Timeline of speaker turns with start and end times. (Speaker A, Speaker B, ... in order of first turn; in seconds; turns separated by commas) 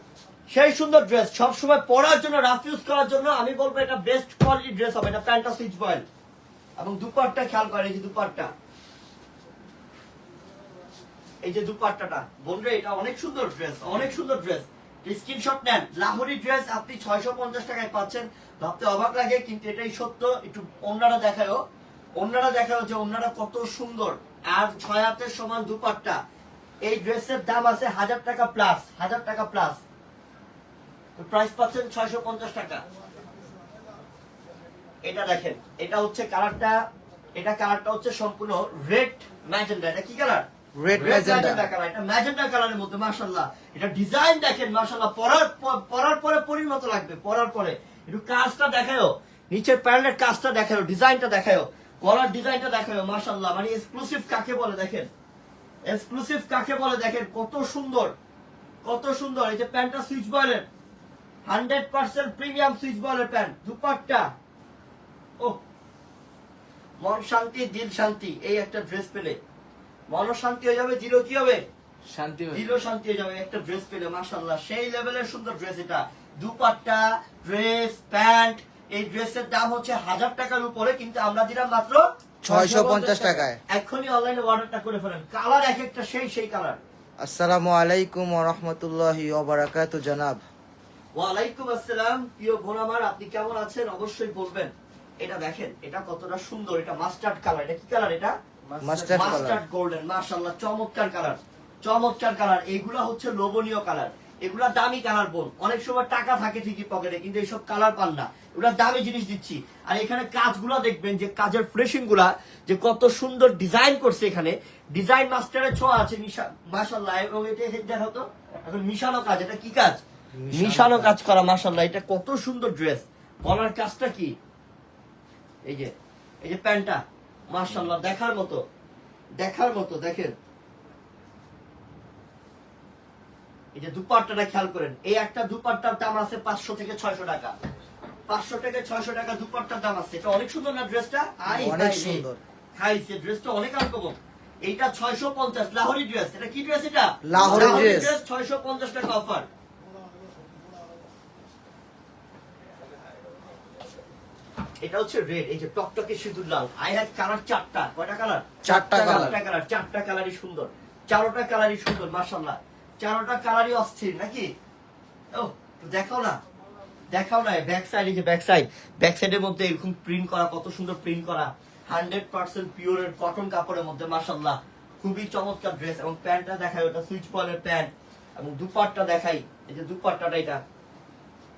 Speaker A: 0.5-6.0, Speaker A: 6.8-8.5, Speaker A: 11.4-21.6, Speaker A: 22.2-26.2, Speaker A: 26.9-29.8, Speaker A: 31.2-32.8, Speaker A: 35.0-36.8, Speaker A: 37.4-55.1, Speaker B: 40.8-41.6, Speaker A: 55.9-58.1, Speaker A: 58.9-60.7, Speaker A: 61.5-64.3, Speaker A: 67.0-69.4, Speaker A: 70.1-71.6, Speaker C: 72.1-72.8, Speaker A: 72.5-86.8, Speaker B: 82.4-83.6, Speaker B: 87.2-90.5, Speaker A: 91.2-98.3, Speaker C: 98.7-99.4, Speaker B: 98.8-99.6, Speaker A: 99.1-124.3, Speaker B: 120.3-121.2, Speaker A: 125.7-128.6, Speaker A: 129.4-130.3, Speaker A: 133.8-137.6, Speaker A: 138.3-142.2, Speaker B: 141.5-142.4, Speaker A: 142.8-149.5, Speaker B: 147.3-148.2, Speaker A: 154.8-164.5, Speaker B: 158.6-159.4, Speaker C: 158.7-159.3, Speaker A: 165.3-166.4, Speaker A: 167.1-180.6